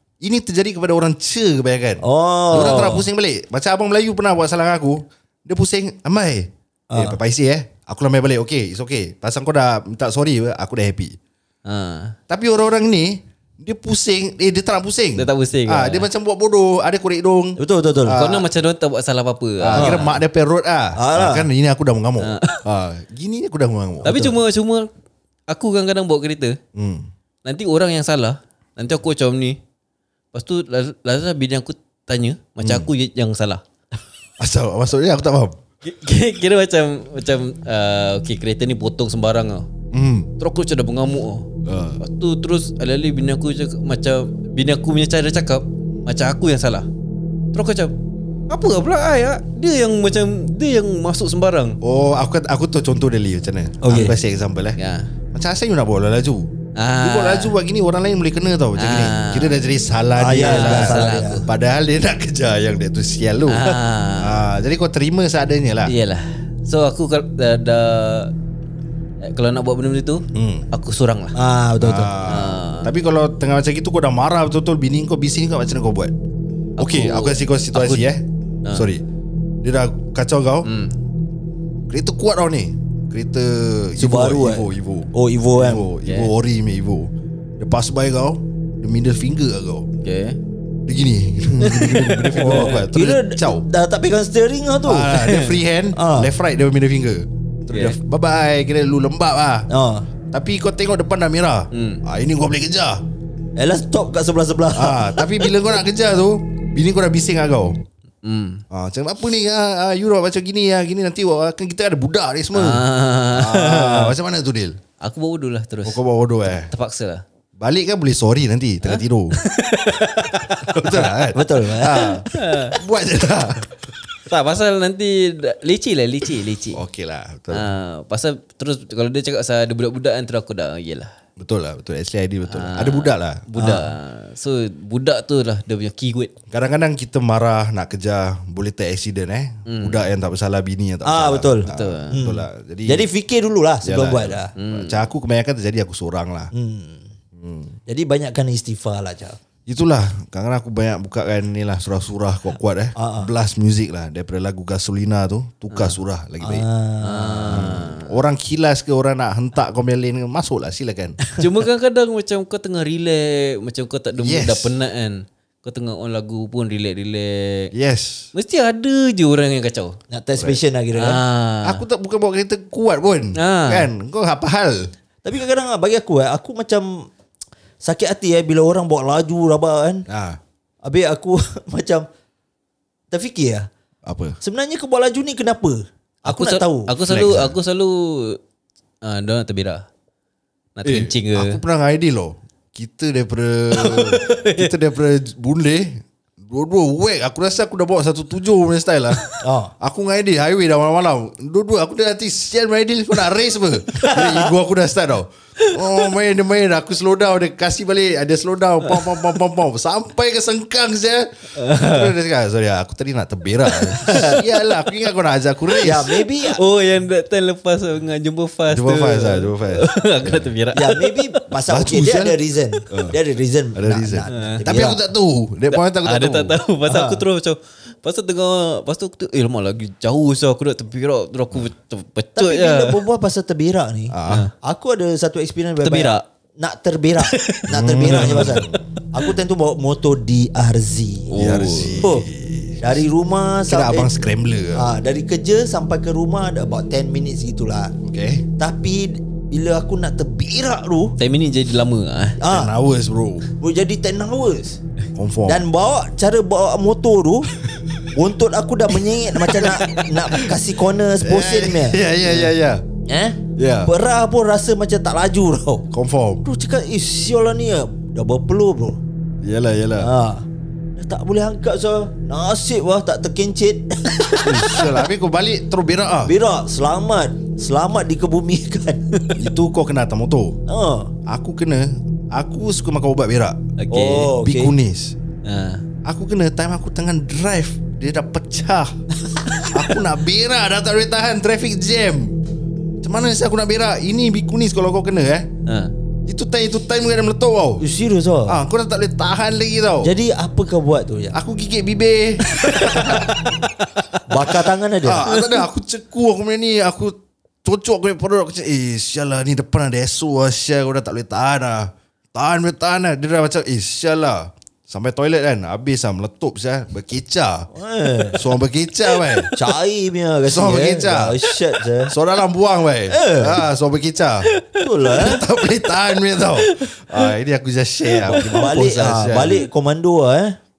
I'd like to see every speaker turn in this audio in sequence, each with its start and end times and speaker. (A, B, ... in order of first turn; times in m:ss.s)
0:00.2-0:11.2 A
0:02.0-0:03.0 B
0:02.5-0:03.0 C
0:06.9-0:07.2 B
0:11.6-0:12.2 C
0:12.3-0:18.5 A
0:15.2-0:16.1 C
0:17.6-0:18.2 B
0:18.2-0:20.2 C
0:19.6-0:24.3 A
0:19.7-0:20.0 B
0:21.0-0:21.5 B
0:22.2-0:22.6 C
0:24.0-0:24.9 C
0:24.0-0:24.3 B
0:25.5-0:26.6 C
0:26.7-0:27.1 A
0:27.4-0:29.6 C
0:30.3-0:33.6 C
0:32.6-0:32.9 A
0:34.4-0:35.6 A
0:35.8-0:39.7 C
0:39.9-0:40.3 A
0:40.4-0:41.5 C
0:41.6-0:42.0 A
0:42.0-0:46.9 C
0:47.5-0:47.9 C
0:48.5-0:51.8 C
0:51.8-0:54.8 A
0:53.8-0:54.2 B
0:54.8-0:55.1 C
0:55.3-1:05.9 A
0:56.8-0:57.5 C
0:58.8-0:59.6 C
1:00.2-1:01.4 B
1:00.3-1:01.5 C
1:03.5-1:04.4 C
1:05.8-1:08.3 C
1:09.2-1:11.3 C
1:10.3-1:10.6 A
1:11.3-1:12.1 B
1:11.8-1:16.1 A
1:12.2-1:12.9 C
1:16.8-1:18.0 C
1:16.8-1:19.0 A
1:19.6-1:20.7 A
1:20.6-1:20.9 C
1:21.9-1:29.9 A
1:24.0-1:25.9 B
1:26.0-1:26.3 C
1:30.0-1:30.4 C
1:30.8-1:33.6 A
1:31.6-1:32.9 C
1:32.4-1:35.2 B
1:34.8-1:39.7 A
1:35.2-1:35.6 C
1:35.9-1:36.3 B
1:37.7-1:38.0 C
1:39.7-1:40.1 B
1:40.3-1:43.0 A
1:41.7-1:42.0 C
1:43.6-1:45.5 B
1:44.7-1:47.8 A
1:48.2-1:48.6 C
1:48.7-1:54.8 A
1:52.5-1:54.2 C
1:55.0-1:56.0 C
1:55.8-1:56.7 A
1:56.6-1:57.2 C
1:57.6-1:59.4 A
1:58.8-2:01.1 C
2:00.5-2:03.8 A
2:01.3-2:02.1 B
2:02.3-2:02.8 C
2:04.3-2:06.8 C
2:06.7-2:07.7 A
2:07.5-2:11.1 C
2:11.4-2:13.4 A
2:12.5-2:16.3 C
2:13.6-2:13.9 B
2:16.5-2:23.1 A
2:19.7-2:20.0 C
2:21.0-2:24.5 B
2:21.7-2:22.2 C
2:23.8-2:26.5 A
2:24.6-2:25.1 C
2:26.5-2:27.0 B
2:27.4-2:27.7 A
2:27.9-2:29.4 B
2:29.7-2:36.6 A
2:33.0-2:33.3 B
2:36.4-2:37.7 B
2:37.0-2:38.2 C
2:37.4-2:41.2 A
2:41.4-2:47.7 C
2:44.2-2:44.7 A
2:47.7-2:48.3 A
2:48.3-2:50.0 C
2:50.1-2:51.2 B
2:50.9-2:51.8 C
2:51.6-2:54.8 A
2:53.4-2:53.9 C
2:55.2-2:57.1 B
2:57.8-3:00.0 B
3:00.1-3:00.4 A
3:00.8-3:02.1 B
3:03.1-3:03.7 B
3:04.0-3:04.4 A
3:04.4-3:06.9 B
3:06.3-3:08.4 C
3:07.1-3:07.5 A
3:09.0-3:09.8 C
3:10.8-3:11.6 C
3:10.8-3:19.2 A
3:13.7-3:14.7 C
3:19.4-3:19.7 B
3:19.8-3:36.1 A
3:23.9-3:24.5 C
3:31.6-3:32.1 C
3:33.7-3:34.0 C
3:34.0-3:34.4 B
3:35.8-3:36.6 B
3:36.2-3:41.4 C
3:38.7-3:40.5 A
3:40.7-3:45.0 B
3:41.7-3:42.4 A
3:42.9-3:43.2 A
3:43.7-3:46.6 A
3:44.3-3:44.7 C
3:45.7-3:53.0 C
3:46.9-3:47.2 B
3:52.4-4:01.4 B
3:54.1-3:54.5 A
3:54.3-3:54.5 C
3:55.8-3:56.2 C
3:57.2-3:58.8 C
3:57.7-3:58.8 A
4:01.3-4:02.1 C
4:01.3-4:03.0 A
4:02.0-4:02.2 B
4:02.8-4:04.2 B
4:03.6-4:04.8 A
4:04.7-4:07.9 B
4:08.0-4:08.4 A
4:08.6-4:11.1 B
4:11.2-4:12.4 C
4:12.4-4:12.7 B
4:12.4-4:13.5 A
4:13.6-4:14.8 B
4:15.1-4:15.6 A
4:15.4-4:17.5 B
4:18.1-4:22.5 B
4:19.4-4:20.0 C
4:21.2-4:22.8 A
4:23.0-4:25.9 B
4:23.6-4:23.9 A
4:25.9-4:26.4 A
4:26.4-4:29.0 B
4:29.4-4:30.1 A
4:30.0-4:34.9 B
4:34.4-4:36.3 A
4:36.2-4:39.0 B
4:39.3-4:40.6 A
4:40.7-4:41.1 B
4:41.3-4:43.7 A
4:43.8-4:44.3 C
4:43.9-4:44.7 B
4:44.4-4:45.1 A
4:45.4-4:45.8 C
4:46.0-4:48.9 A
4:49.7-4:52.4 A
4:53.0-4:55.5 A
4:56.3-4:57.8 A
4:57.8-4:58.6 B
4:58.5-5:00.1 A
5:00.0-5:01.4 B
5:01.3-5:03.4 A
5:02.5-5:03.3 C
5:04.3-5:05.2 B
5:05.0-5:17.7 A
5:05.2-5:05.6 C
5:17.7-5:18.4 B
5:18.3-5:19.5 A
5:19.1-5:19.5 C
5:19.6-5:22.1 B
5:20.5-5:21.4 A
5:22.1-5:24.5 A
5:23.1-5:23.6 B
5:24.4-5:25.4 C
5:24.8-5:25.4 B
5:25.2-5:29.6 A
5:26.6-5:27.3 C
5:28.1-5:28.7 C
5:28.5-5:30.6 B